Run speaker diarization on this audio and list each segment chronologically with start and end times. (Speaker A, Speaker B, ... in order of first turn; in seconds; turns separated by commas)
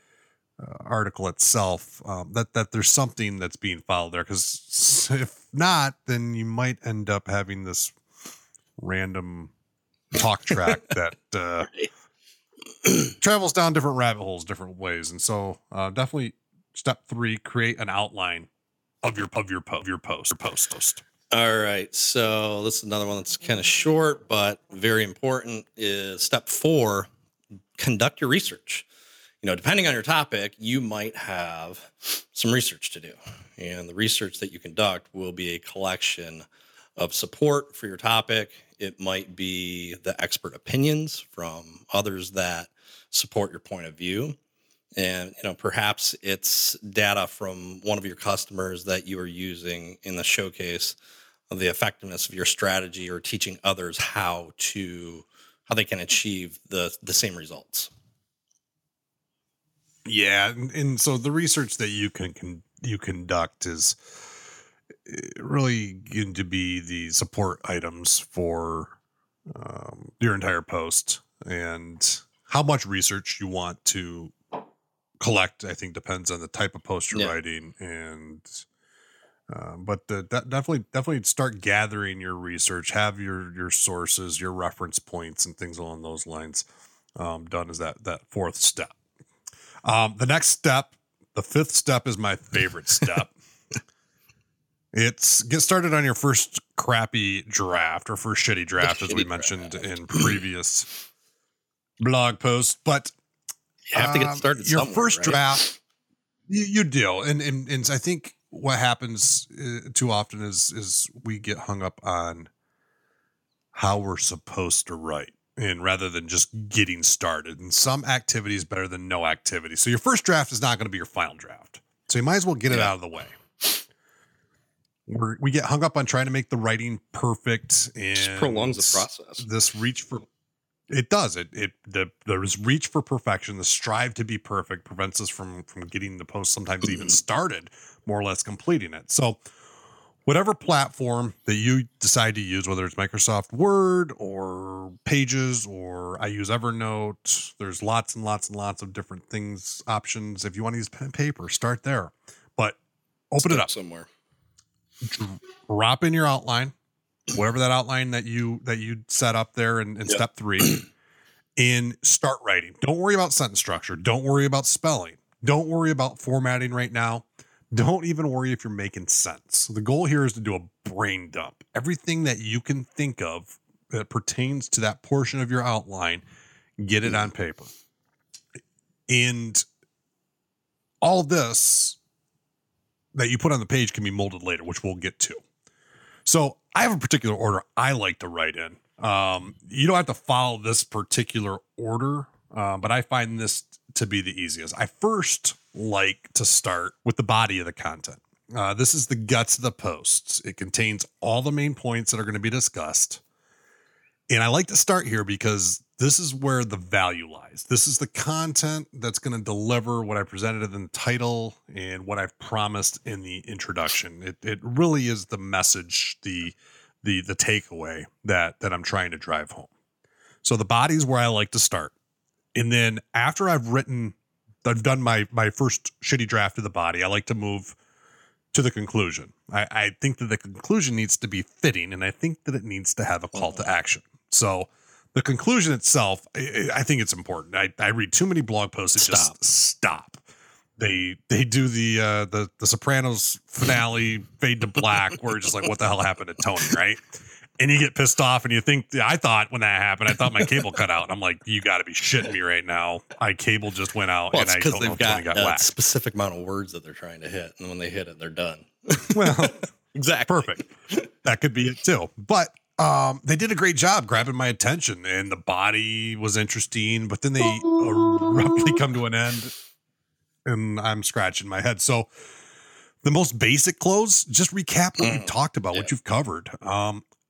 Speaker A: 0.6-8.0, Speaker A: 8.8-9.5, Speaker A: 10.1-11.7, Speaker A: 13.2-18.5, Speaker A: 19.0-21.0, Speaker B: 21.3-27.1, Speaker B: 27.8-28.9, Speaker B: 29.4-36.5, Speaker B: 37.0-44.4, Speaker B: 45.0-51.0, Speaker B: 51.5-57.9, Speaker A: 60.0-64.0, Speaker A: 65.0-68.9, Speaker A: 69.5-74.3, Speaker A: 75.2-78.6, Speaker A: 79.5-88.9, Speaker A: 89.8-93.3, Speaker A: 94.9-100.9, Speaker B: 98.8-100.3, Speaker A: 102.0-103.1, Speaker B: 103.9-105.8, Speaker A: 103.9-105.6, Speaker A: 106.5-112.5, Speaker A: 113.7-123.3, Speaker A: 125.1-130.3, Speaker B: 128.1-129.4, Speaker A: 130.9-139.4, Speaker B: 136.8-137.1, Speaker A: 140.2-152.8, Speaker A: 153.3-153.7, Speaker B: 153.4-154.1, Speaker A: 155.0-156.7, Speaker A: 157.3-160.8, Speaker B: 160.1-160.8, Speaker A: 161.6-176.2, Speaker A: 176.8-177.7, Speaker A: 179.1-179.6, Speaker A: 181.0-182.0, Speaker A: 183.1-185.4, Speaker A: 186.2-203.2, Speaker A: 204.3-219.7, Speaker A: 220.4-221.9, Speaker A: 222.5-227.8, Speaker A: 228.5-240.2, Speaker B: 233.3-233.6, Speaker B: 239.0-239.3, Speaker A: 240.8-247.0, Speaker A: 247.6-255.7, Speaker B: 254.3-261.1, Speaker A: 259.1-259.6, Speaker A: 260.3-260.7, Speaker A: 261.2-269.5, Speaker B: 267.4-268.9, Speaker A: 270.4-272.1, Speaker A: 273.0-277.0, Speaker B: 275.0-275.9